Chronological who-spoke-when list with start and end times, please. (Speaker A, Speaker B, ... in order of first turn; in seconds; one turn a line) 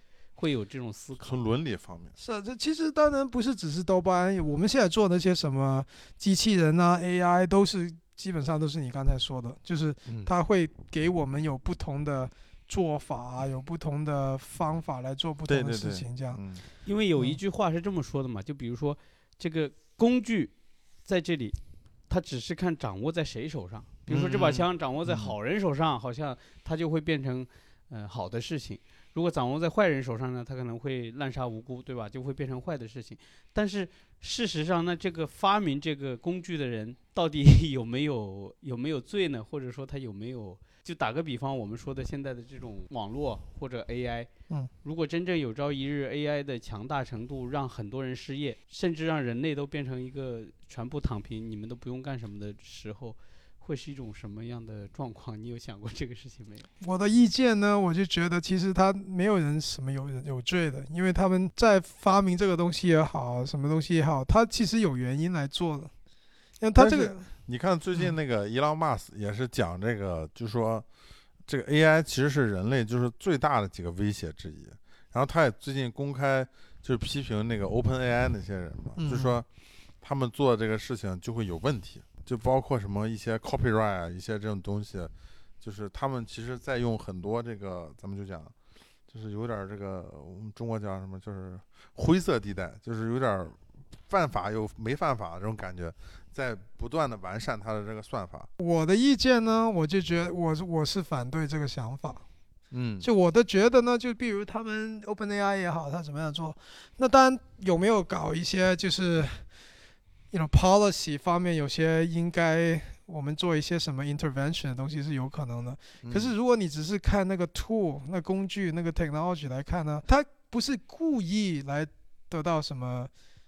Speaker A: 0.3-1.4
Speaker B: 1.2-2.1
Speaker C: 2.2-16.4
Speaker B: 15.5-16.6
Speaker A: 16.8-20.5
Speaker A: 21.0-21.6
Speaker A: 22.1-44.3
Speaker B: 24.1-25.3
Speaker A: 44.8-56.7
Speaker C: 56.8-65.9
Speaker C: 66.6-67.2
Speaker B: 66.8-70.8
Speaker B: 71.5-79.5
Speaker C: 79.0-79.4
Speaker B: 80.0-88.5
Speaker B: 89.1-98.5
Speaker C: 98.6-102.2
Speaker B: 102.7-103.1
Speaker C: 103.0-109.4
Speaker C: 110.3-123.1
Speaker B: 116.0-116.3